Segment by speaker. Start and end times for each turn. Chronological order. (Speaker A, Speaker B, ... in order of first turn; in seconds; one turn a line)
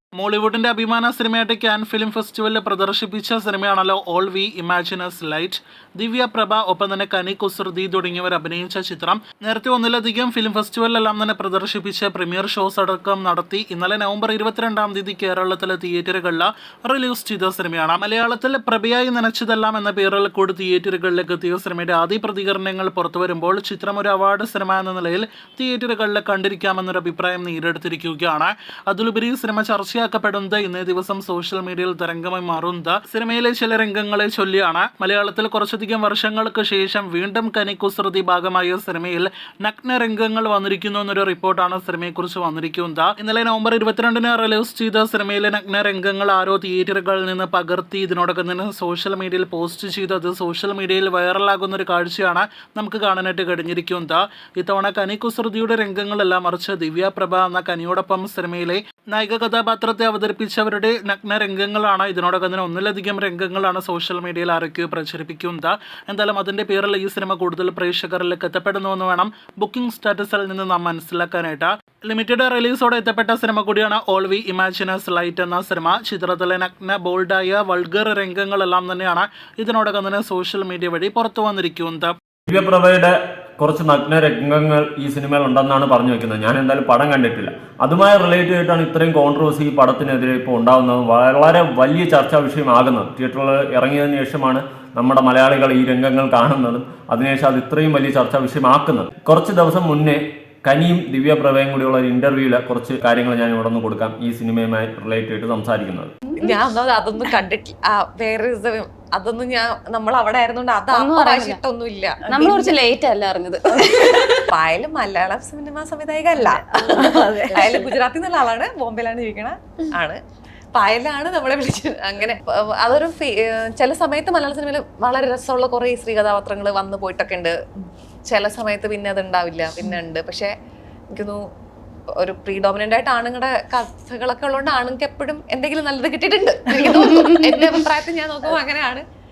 Speaker A: 0.2-82.1
Speaker B: 82.5-106.1
Speaker C: 106.4-112.8
Speaker D: 110.9-111.6
Speaker D: 112.3-114.5
Speaker C: 114.3-120.2
Speaker D: 116.4-117.9
Speaker C: 120.7-127.5
Speaker C: 128.3-130.5
Speaker C: 131.1-131.4
Speaker C: 132.1-139.0